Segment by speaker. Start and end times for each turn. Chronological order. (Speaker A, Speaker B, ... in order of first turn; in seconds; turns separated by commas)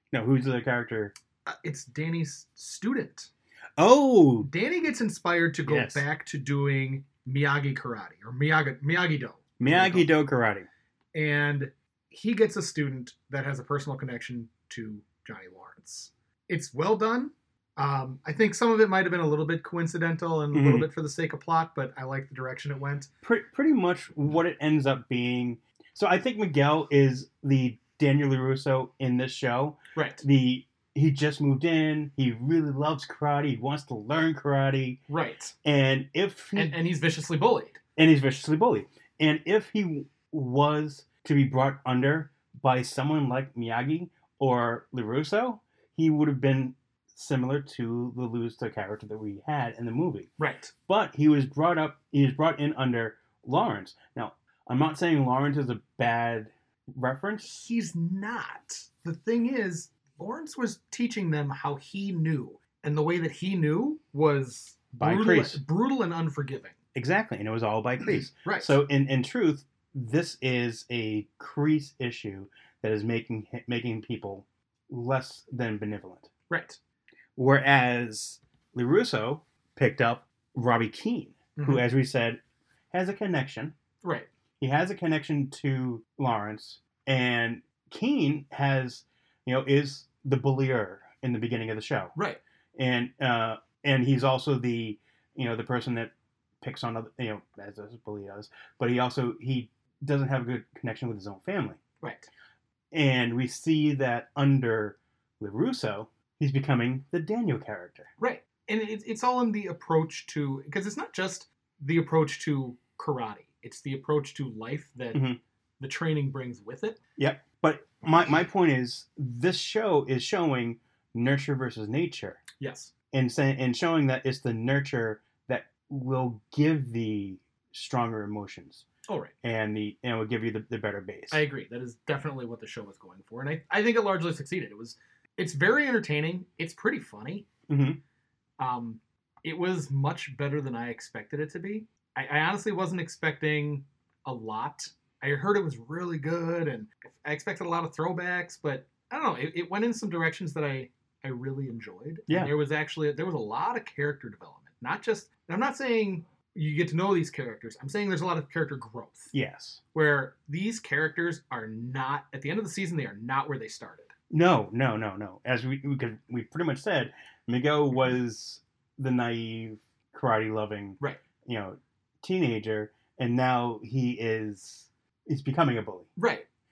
Speaker A: 0.1-1.1, Speaker B: 1.4-3.3, Speaker A: 3.8-4.5, Speaker B: 4.4-10.1, Speaker A: 5.7-6.0, Speaker A: 9.6-10.7, Speaker B: 11.1-23.1, Speaker A: 20.5-20.9, Speaker A: 23.2-35.0, Speaker B: 29.9-30.2, Speaker B: 35.1-35.5, Speaker A: 35.6-36.8, Speaker B: 36.5-37.8, Speaker A: 38.0-50.3, Speaker B: 50.4-50.7, Speaker A: 50.9-57.5, Speaker B: 57.4-66.8, Speaker A: 65.0-65.6, Speaker A: 66.9-76.3, Speaker B: 68.3-68.8, Speaker B: 76.5-76.8, Speaker A: 77.4-82.4, Speaker B: 81.6-81.8, Speaker A: 82.9-83.7, Speaker B: 84.0-84.3, Speaker A: 84.6-92.1, Speaker B: 92.1-92.4, Speaker A: 92.8-101.8, Speaker B: 102.0-102.3, Speaker A: 102.9-108.1, Speaker B: 108.2-115.2, Speaker A: 115.1-115.4, Speaker B: 115.8-117.0, Speaker A: 117.2-122.4, Speaker B: 122.6-122.9, Speaker A: 123.1-128.8, Speaker B: 129.1-129.3, Speaker A: 129.4-131.4, Speaker B: 131.3-137.5, Speaker A: 137.7-138.0, Speaker B: 138.6-159.3, Speaker A: 159.3-159.8, Speaker B: 159.9-164.1, Speaker A: 164.3-176.1, Speaker B: 176.2-176.4